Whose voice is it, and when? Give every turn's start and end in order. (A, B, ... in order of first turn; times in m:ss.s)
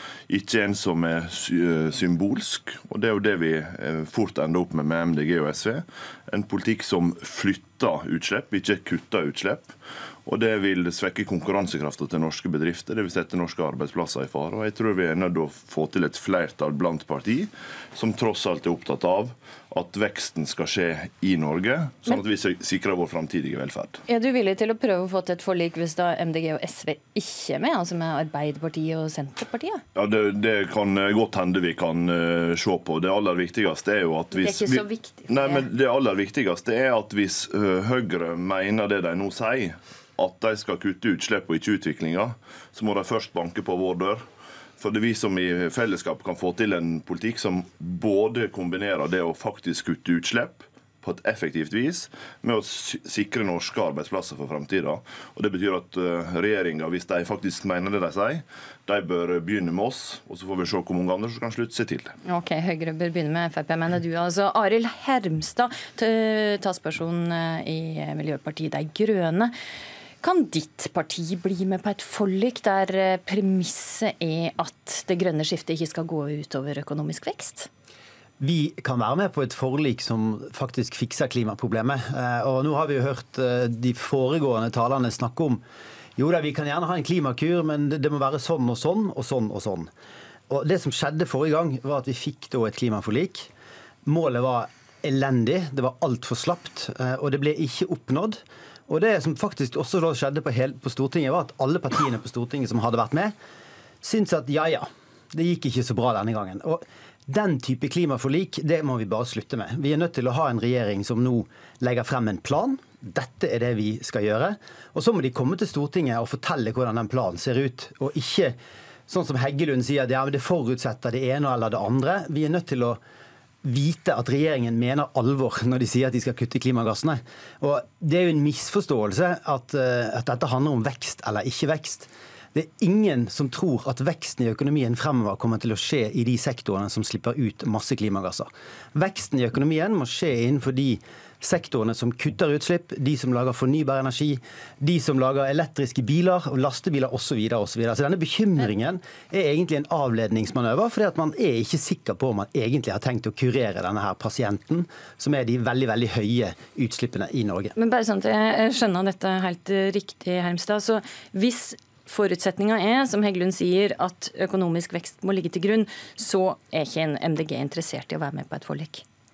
0:00.3-0:09.7 A
0:10.2-0:24.0 A
0:24.1-0:29.8 B
0:29.9-0:44.2 A
0:34.3-0:35.6 B
0:44.8-1:02.1 A
1:02.2-1:09.5 B
1:10.2-1:17.7 B
1:18.4-1:25.6 C
1:26.2-1:29.9 C
1:30.5-1:33.5 C
1:34.0-1:43.3 C
1:44.0-1:58.6 C
1:59.1-2:03.0 C
2:03.6-2:37.7 C
2:37.8-2:49.0 B